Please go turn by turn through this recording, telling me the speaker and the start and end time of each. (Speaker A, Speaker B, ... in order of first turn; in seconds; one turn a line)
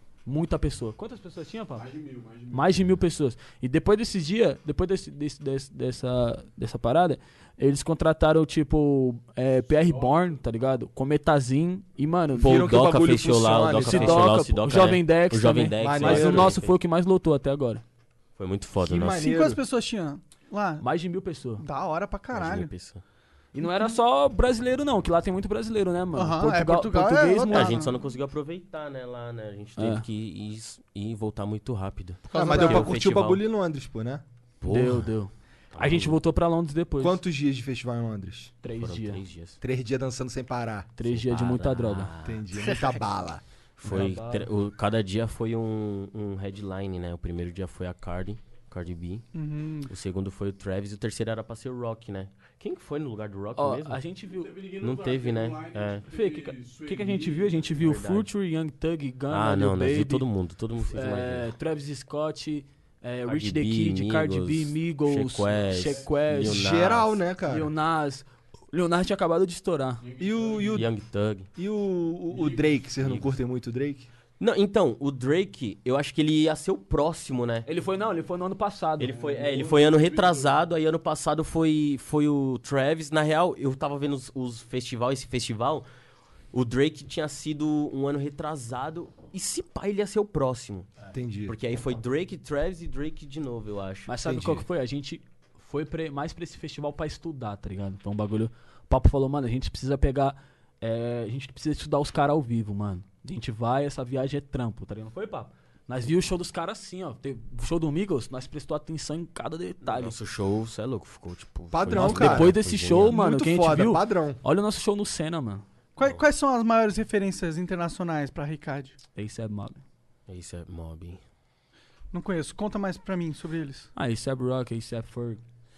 Speaker A: 0.2-1.9
Speaker B: 1.7-2.9
Speaker A: 2.5-12.6
Speaker B: 9.7-10.4
Speaker C: 12.3-14.3
Speaker D: 12.4-16.7
Speaker A: 13.8-17.8
Speaker C: 15.8-16.6
Speaker D: 18.4-19.3
Speaker C: 18.8-19.6
Speaker E: 19.1-20.9
Speaker A: 20.8-21.6
Speaker E: 21.6-22.7
Speaker D: 22.3-23.0
Speaker A: 23.5-27.7
Speaker E: 23.6-23.9
Speaker E: 26.1-27.9
Speaker D: 27.5-33.4
Speaker A: 29.8-30.0
Speaker E: 32.3-32.9
Speaker C: 32.3-34.2
Speaker D: 34.6-35.1
Speaker A: 34.6-37.2
Speaker D: 35.7-36.2
Speaker C: 37.0-38.5
Speaker A: 38.6-39.2
Speaker D: 38.8-39.6
Speaker C: 39.6-40.9
Speaker A: 41.0-42.1
Speaker D: 41.0-42.4
Speaker C: 42.2-43.4
Speaker E: 42.6-42.9
Speaker D: 43.8-49.3
Speaker A: 43.8-44.5
Speaker E: 49.3-49.9
Speaker D: 49.9-54.0
Speaker A: 53.5-54.6
Speaker B: 54.2-57.8
Speaker D: 54.8-56.0
Speaker A: 56.1-60.2
Speaker D: 57.8-58.3
Speaker D: 59.3-61.5
Speaker A: 60.9-66.6
Speaker D: 63.3-67.1
Speaker B: 65.7-66.1
Speaker C: 66.3-67.7
Speaker A: 67.4-70.0
Speaker B: 70.0-70.8
Speaker C: 70.2-70.9
Speaker D: 70.7-71.5
Speaker C: 71.6-74.1
Speaker B: 72.3-72.6
Speaker D: 74.4-77.7
Speaker A: 77.7-79.2
Speaker D: 79.0-85.8
Speaker B: 79.0-80.6
Speaker D: 86.5-90.9
Speaker C: 91.1-91.5
Speaker D: 91.5-94.1
Speaker A: 94.1-110.1
Speaker C: 94.2-94.6
Speaker D: 109.8-113.1
Speaker C: 111.7-114.4
Speaker A: 111.9-115.6
Speaker E: 116.0-119.0
Speaker A: 119.2-119.8
Speaker D: 120.3-121.2
Speaker E: 122.1-123.9
Speaker A: 124.0-125.4